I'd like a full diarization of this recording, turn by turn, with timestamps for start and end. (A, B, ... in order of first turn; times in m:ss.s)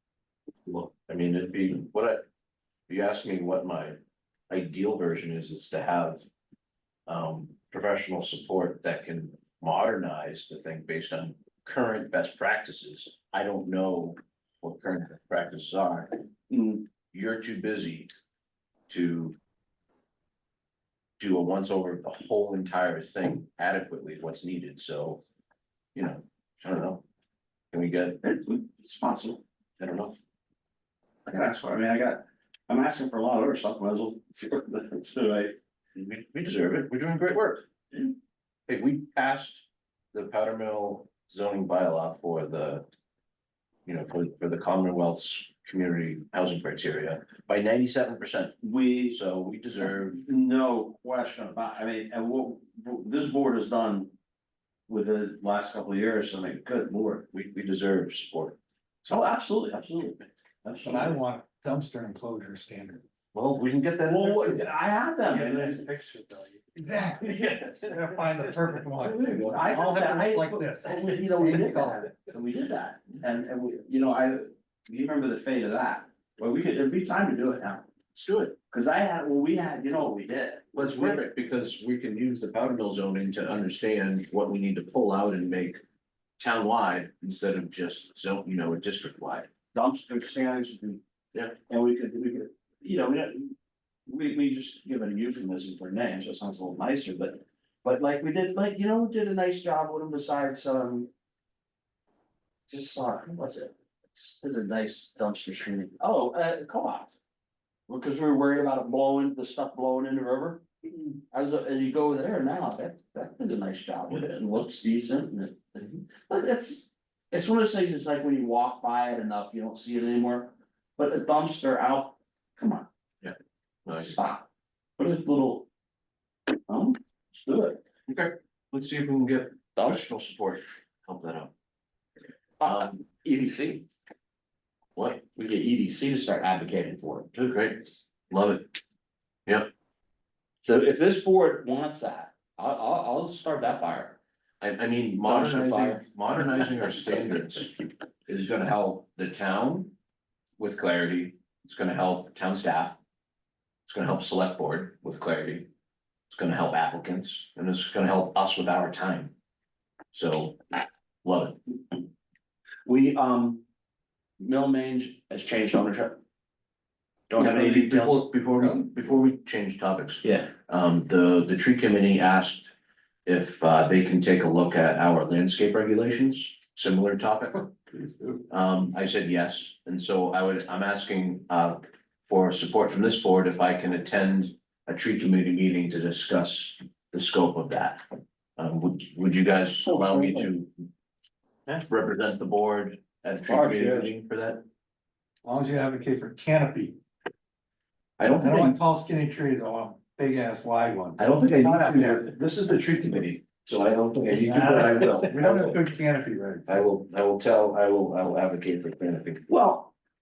0:00.7-0:02.2 A
0:02.9-0:04.0 A
0:04.5-0:06.2 A
0:07.1-0:16.1 A
0:16.5-0:16.8 B
0:17.1-0:18.1 A
0:18.9-0:19.4 A
0:21.2-0:25.2 A
0:26.0-0:27.0 A
0:27.7-0:28.2 A
0:28.2-0:29.4 B
0:29.8-0:30.2 A
0:31.3-0:35.6 B
0:36.0-0:37.7 A
0:38.7-0:42.8 A
0:43.9-0:48.6 A
0:48.6-0:49.2 B
0:49.1-0:50.2 A
0:50.1-0:54.1 B
0:54.9-0:57.3 B
0:57.3-0:58.6 A
0:59.0-1:01.2 B
1:00.8-1:03.0 C
1:03.3-1:04.7 A
1:04.1-1:05.9 B
1:05.3-1:12.1 C
1:09.2-1:17.9 B
1:09.2-1:09.5 A
1:18.1-1:18.6 A
1:18.7-1:21.2 B
1:20.7-1:25.8 A
1:26.4-1:29.5 A
1:29.7-1:31.0 B
1:31.7-1:33.6 B
1:34.1-1:41.1 B
1:42.7-1:47.2 B
1:47.9-2:02.9 B
2:03.2-2:04.2 A
2:04.0-2:05.7 B
2:06.7-2:07.8 B
2:08.1-2:11.5 A
2:09.8-2:10.1 B
2:12.6-2:13.9 B
2:12.6-2:13.0 A
2:15.0-2:15.2 A
2:15.3-2:17.3 B
2:17.3-2:18.7 A
2:19.5-2:19.7 A
2:20.6-2:24.2 B
2:24.6-2:27.7 A
2:25.2-2:26.0 B
2:28.3-2:29.9 A
2:30.6-2:33.0 A
2:33.9-2:35.7 A
2:36.3-2:39.3 A
2:40.1-2:40.6 A
2:41.2-2:41.6 A
2:42.8-2:43.6 B
2:44.4-2:46.2 B
2:47.3-2:48.3 B
2:47.4-2:52.7 A
2:50.2-2:50.5 B
2:53.3-2:57.7 A
2:58.5-3:08.0 A
3:08.6-3:10.7 A
3:09.9-3:10.5 B
3:11.9-3:14.6 A
3:13.5-3:14.1 B
3:15.4-3:17.0 C
3:18.2-3:18.8 A
3:18.4-3:22.3 C
3:21.2-3:25.8 A
3:24.3-3:26.8 C
3:26.7-3:29.4 A
3:29.5-3:29.9 B